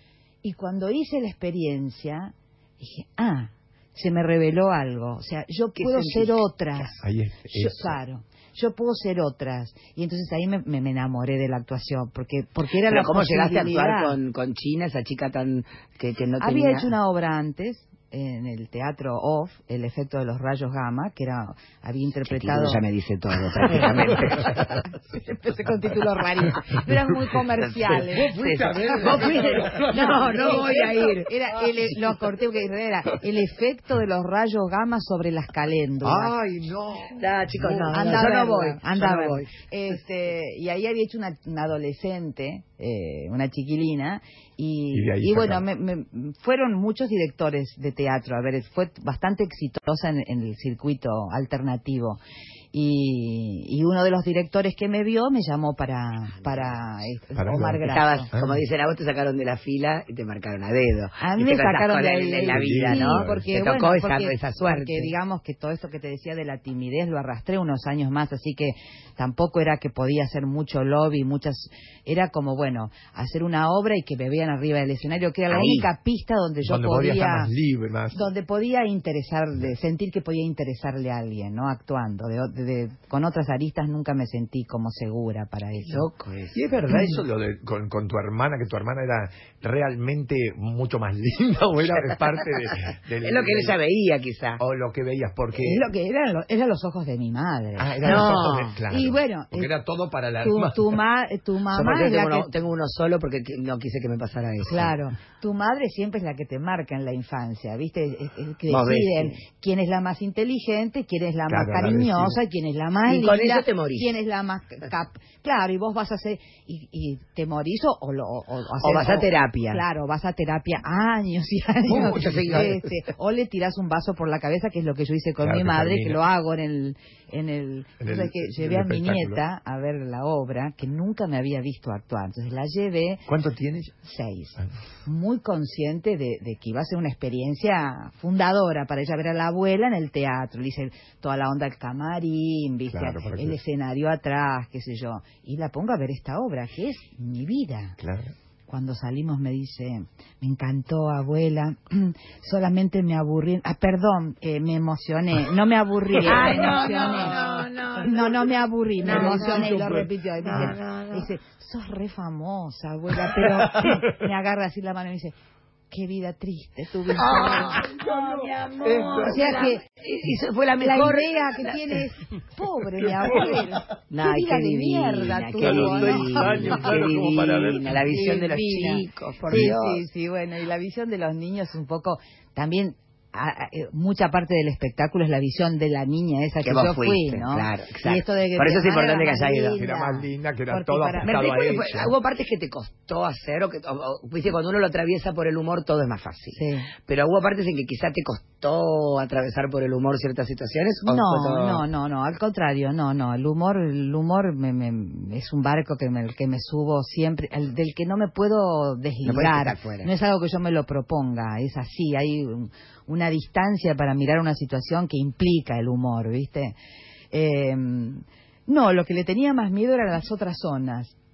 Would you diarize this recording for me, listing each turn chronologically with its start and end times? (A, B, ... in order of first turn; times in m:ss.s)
0:00.4-0:14.2 A
0:05.8-0:06.4 B
0:07.0-0:08.0 C
0:12.9-0:16.9 B
0:16.4-0:22.8 A
0:22.2-0:24.8 B
0:23.7-0:36.4 A
0:27.5-0:31.3 B
0:27.9-0:31.0 C
0:36.0-0:38.0 C
0:37.1-0:39.5 B
0:37.9-0:52.2 A
0:44.9-0:45.6 C
0:52.7-0:58.3 A
0:57.4-0:58.6 C
0:57.8-1:05.1 B
1:01.2-1:17.5 A
1:02.5-1:03.5 C
1:15.5-1:15.9 B
1:16.6-1:18.2 C
1:18.1-1:26.1 A
1:25.9-1:26.6 B
1:26.5-1:33.8 C
1:26.9-1:27.2 A
1:32.7-1:34.6 B
1:34.6-1:35.9 C
1:35.6-1:39.7 A
1:37.8-1:41.0 C
1:38.0-1:38.8 B
1:40.4-1:42.5 A
1:41.7-1:44.9 B
1:44.7-2:13.3 A
1:48.7-1:49.4 B
1:51.5-1:52.4 C
1:53.1-1:54.1 B
1:58.8-1:59.8 B
2:01.9-2:02.8 C
2:01.9-2:02.8 B
2:05.4-2:06.2 C
2:08.0-2:09.4 C
2:13.3-2:14.0 C
2:14.0-2:28.0 A
2:22.9-2:23.6 C
2:28.0-2:28.3 C
2:28.7-2:45.3 A
2:36.2-2:38.4 B
2:39.0-2:39.8 B
2:39.0-2:40.1 C
2:40.4-2:41.3 B
2:43.1-2:44.3 C
2:45.9-2:47.8 A
2:47.2-2:51.8 B
2:47.2-2:49.6 C
2:49.2-2:49.8 A
2:50.8-2:56.8 A
2:53.0-2:53.7 C
2:54.1-3:00.0 B
2:55.6-2:58.0 C
2:58.1-3:11.6 A
3:06.6-3:09.8 B
3:09.8-3:12.1 C
3:11.2-3:21.8 B
3:16.5-3:16.9 A
3:21.0-3:36.8 A
3:29.2-3:30.1 B
3:37.3-3:41.1 A